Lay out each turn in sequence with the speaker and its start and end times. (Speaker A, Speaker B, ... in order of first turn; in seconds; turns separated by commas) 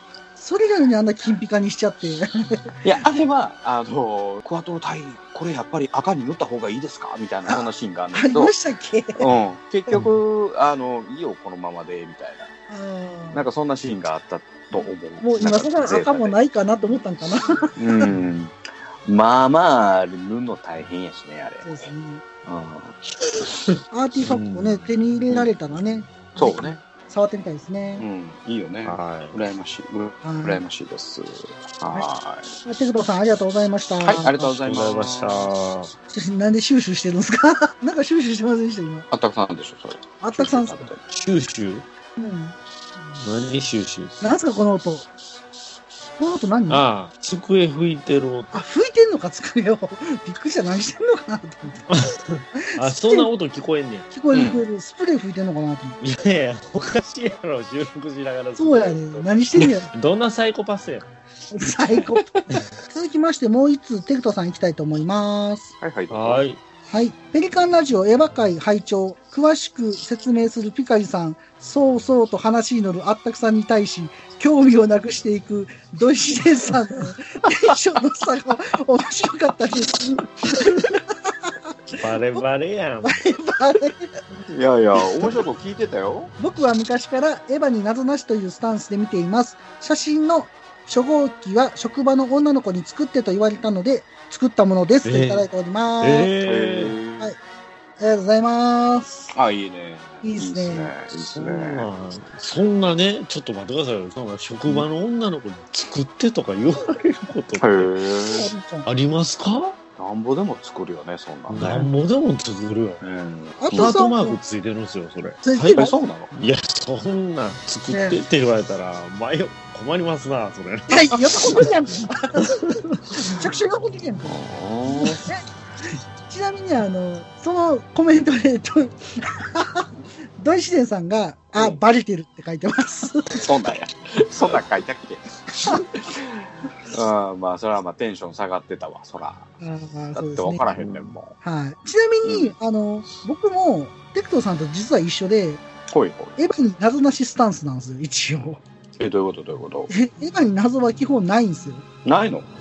Speaker A: 0.4-2.8, Speaker B: 2.8-8.5, Speaker A: 7.5-9.2, Speaker B: 9.2-12.5, Speaker A: 12.7-13.4, Speaker B: 13.3-16.4, Speaker A: 15.2-18.1, Speaker B: 17.8-21.9, Speaker A: 21.6-22.3, Speaker B: 22.4-23.0, Speaker A: 23.9-28.1, Speaker C: 24.2-24.9, Speaker B: 26.4-26.8, Speaker B: 27.9-32.5, Speaker C: 28.8-29.4, Speaker A: 30.2-30.6, Speaker A: 32.6-34.3, Speaker B: 34.0-35.5, Speaker C: 34.4-35.9, Speaker A: 36.1-39.1, Speaker B: 39.1-41.0, Speaker A: 40.2-40.9, Speaker C: 41.1-41.8, Speaker A: 42.2-42.5, Speaker C: 43.2-44.2, Speaker A: 44.2-45.1, Speaker A: 46.2-46.9, Speaker C: 46.7-48.5, Speaker A: 48.5-51.9, Speaker C: 51.9-54.1, Speaker A: 52.5-53.3, Speaker A: 54.1-56.0, Speaker B: 54.3-54.6, Speaker C: 56.0-59.3, Speaker A: 58.6-59.9, Speaker C: 59.9-61.1, Speaker A: 61.5-65.7, Speaker B: 65.8-66.5, Speaker C: 66.1-66.6, Speaker A: 66.9-82.4, Speaker C: 82.0-83.3, Speaker A: 83.0-84.1, Speaker B: 84.5-86.3, Speaker A: 86.4-96.3, Speaker C: 95.0-95.5, Speaker C: 96.0-96.9, Speaker B: 96.4-97.3, Speaker A: 98.0-99.2, Speaker B: 99.3-101.9, Speaker A: 100.2-100.9, Speaker C: 101.3-108.0, Speaker B: 107.6-108.5, Speaker A: 108.4-108.9, Speaker C: 108.8-109.8, Speaker B: 110.0-111.8, Speaker C: 111.5-113.1, Speaker A: 111.6-111.9, Speaker B: 113.0-113.9, Speaker A: 113.6-114.4, Speaker C: 113.7-121.1, Speaker A: 115.4-116.0, Speaker B: 115.7-116.3, Speaker A: 117.9-118.2, Speaker A: 120.9-124.4, Speaker B: 124.2-125.2, Speaker A: 125.0-129.9, Speaker A: 130.4-133.5, Speaker B: 131.6-131.8, Speaker B: 133.4-135.8, Speaker B: 136.4-139.5, Speaker A: 139.6-140.6, Speaker B: 140.1-141.3, Speaker C: 140.7-141.1, Speaker A: 141.4-145.7, Speaker B: 142.2-142.6, Speaker B: 145.9-146.4, Speaker A: 146.4-148.6, Speaker B: 149.0-149.9, Speaker A: 149.9-151.9, Speaker B: 152.1-152.5